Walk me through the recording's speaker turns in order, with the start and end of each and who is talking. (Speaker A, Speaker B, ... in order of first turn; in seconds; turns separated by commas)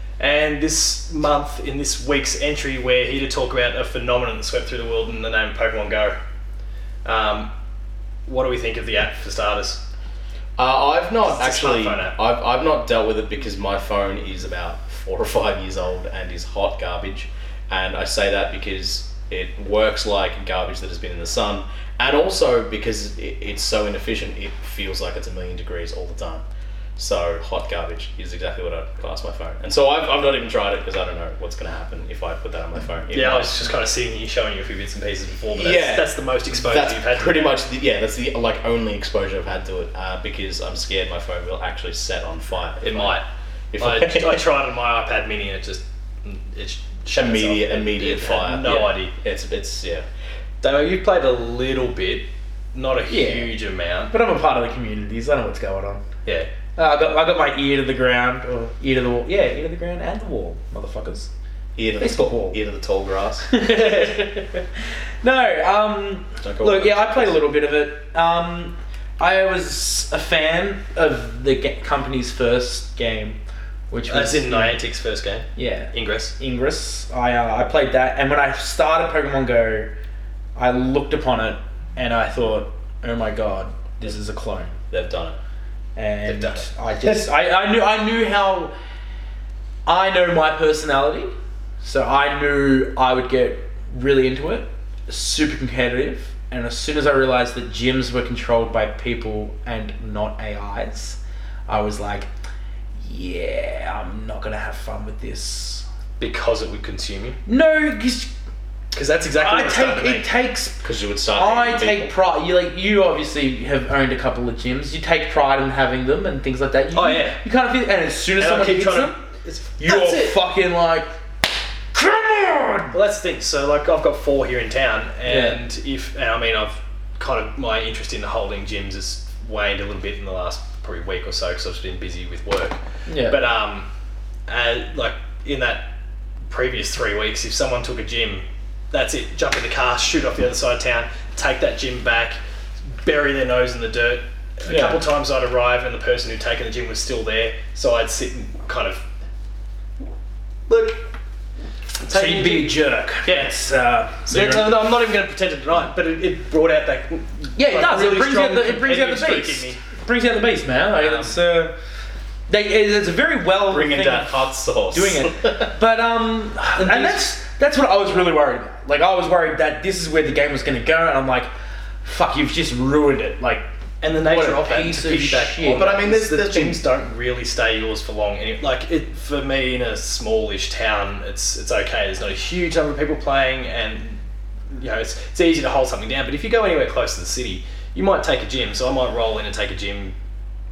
Speaker A: 0.2-6.2, Speaker A: 7.0-7.5, Speaker A: 8.3-9.8, Speaker B: 10.6-26.4, Speaker A: 11.2-12.2, Speaker B: 27.0-33.6, Speaker A: 33.1-37.6, Speaker B: 35.6-43.2, Speaker A: 42.8-43.3, Speaker B: 43.7-44.4, Speaker A: 43.8-49.1, Speaker B: 47.1-50.0, Speaker A: 50.6-54.1, Speaker C: 53.1-53.5, Speaker C: 54.1-56.0, Speaker C: 56.8-61.3, Speaker B: 61.8-63.7, Speaker C: 62.0-62.6, Speaker C: 63.5-64.6, Speaker C: 65.2-73.4, Speaker B: 66.4-67.4, Speaker C: 73.9-74.8, Speaker A: 74.1-76.3, Speaker C: 75.6-80.0, Speaker C: 80.6-84.8, Speaker B: 84.9-85.4, Speaker C: 86.0-88.7, Speaker A: 86.2-86.7, Speaker C: 89.9-102.3, Speaker C: 103.0-105.8, Speaker A: 106.2-107.4, Speaker C: 107.5-108.3, Speaker A: 108.9-110.3, Speaker C: 109.4-110.8, Speaker B: 110.8-112.1, Speaker C: 111.4-119.2, Speaker A: 116.9-117.4, Speaker A: 118.4-120.4, Speaker C: 119.8-121.1, Speaker C: 121.9-123.0, Speaker A: 122.9-133.9, Speaker C: 125.3-125.6, Speaker C: 133.1-133.4, Speaker A: 134.5-135.9, Speaker A: 136.5-142.4, Speaker A: 143.0-149.0, Speaker C: 144.7-145.0, Speaker A: 150.7-151.0, Speaker A: 152.0-153.5, Speaker C: 152.1-154.7, Speaker A: 154.3-159.8, Speaker C: 157.6-161.8, Speaker A: 160.9-161.4, Speaker C: 162.5-171.5, Speaker B: 163.7-165.7, Speaker A: 166.8-167.2, Speaker C: 172.0-173.7, Speaker A: 174.0-184.2, Speaker C: 174.2-175.9, Speaker B: 175.7-176.8, Speaker A: 184.7-190.2